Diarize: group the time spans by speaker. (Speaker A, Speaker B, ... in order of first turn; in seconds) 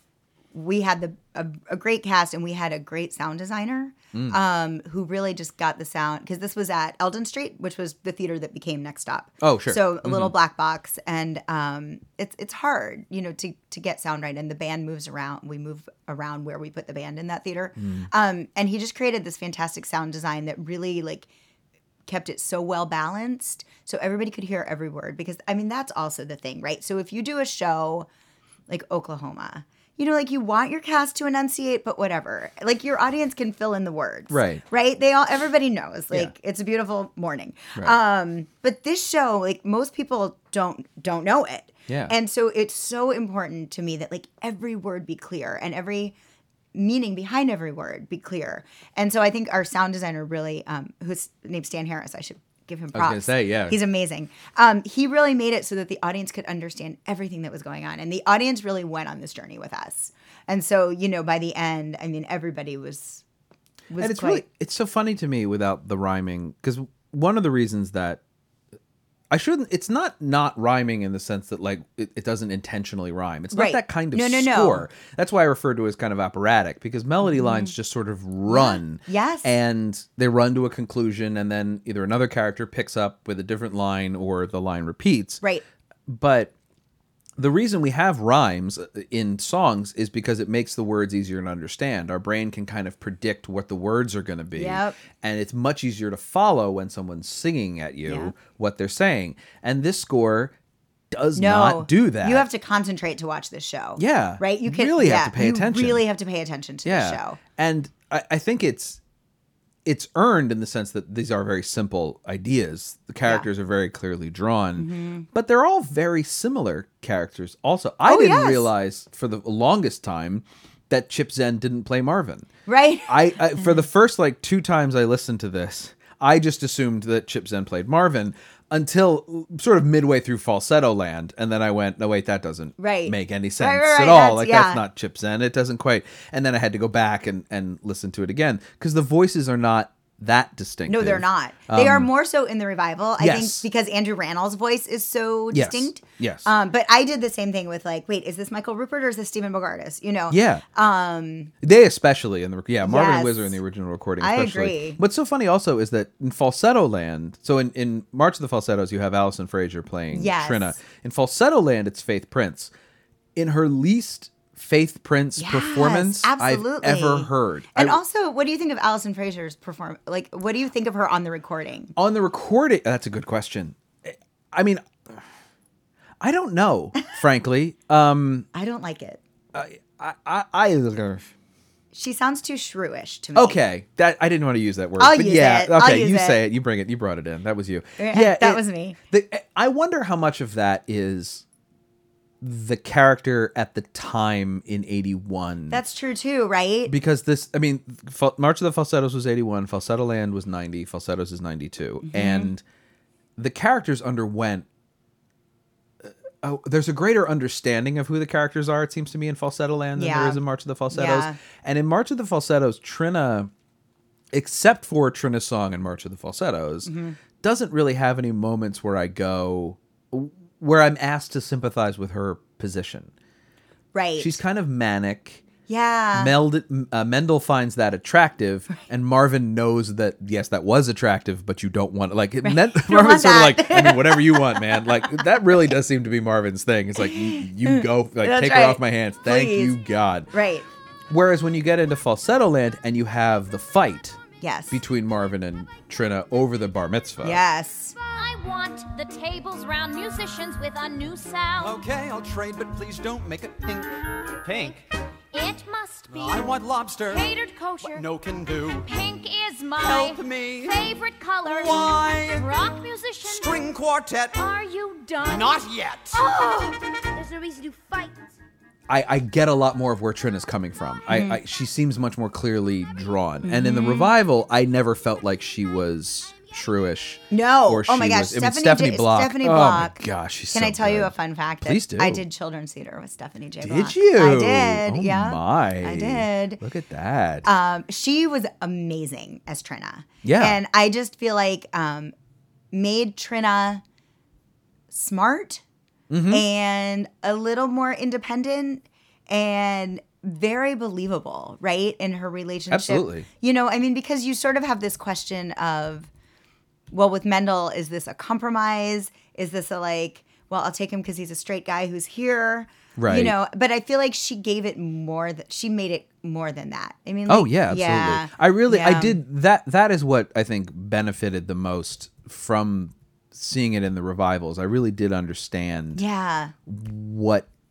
Speaker A: 0.5-21.3, 22.1-28.1, 28.7-46.1, 46.7-63.2, 63.9-64.4, 73.5-74.9, 77.2-77.7, 78.5-79.5, 94.5-95.0, 98.0-98.3, 101.3-107.4, 114.8-115.2, 118.0-118.7, 122.7-123.7, 132.8-134.8, 140.9-151.5, 152.8-153.6, 154.2-155.0, 160.1-160.8, 165.4-171.9, 178.5-179.2, 181.9-183.6, 185.0-186.4, 188.0-189.0, 195.7-196.9, 202.0-202.5, 209.9-211.4, 216.8-217.2, 223.9-224.4, 225.7-226.3, 232.4-235.5, 237.0-239.8, 240.3-240.7, 244.4-244.8, 247.2-247.9, 266.3-266.7, 271.1-271.4, 273.4-274.1, 277.3-286.6, 287.4-292.1, 292.7-293.8, 294.9-295.6, 296.3-306.1, 306.9-319.2, 325.9-326.5
Speaker B: 9.4-10.3, 17.8-18.1, 34.3-34.6, 41.9-42.1, 52.9-53.8, 64.0-68.2, 69.3-85.4, 86.1-86.5, 87.4-100.5, 101.1-102.5, 104.0-106.0, 106.8-109.0, 109.8-122.5, 123.1-142.1, 143.2-143.7, 145.5-146.5, 150.3-150.6, 151.6-162.7, 163.3-168.0, 171.9-175.1, 176.2-178.5, 179.5-181.3, 183.3-191.4, 192.4-195.8, 196.9-202.6, 203.4-204.7, 206.0-213.5, 214.3-223.1, 224.2-225.4, 226.1-240.3, 241.1-244.2, 244.7-247.4, 268.9-282.2, 283.6-287.5, 290.2-290.6, 296.1-296.4, 302.7-303.2, 313.0-313.4, 317.3-326.0, 326.6-327.5
Speaker C: 248.1-251.8, 255.3-258.1, 258.8-263.8, 264.3-268.3
Speaker D: 251.6-254.8, 256.1-258.9, 259.8-262.6, 263.2-264.4, 265.2-266.2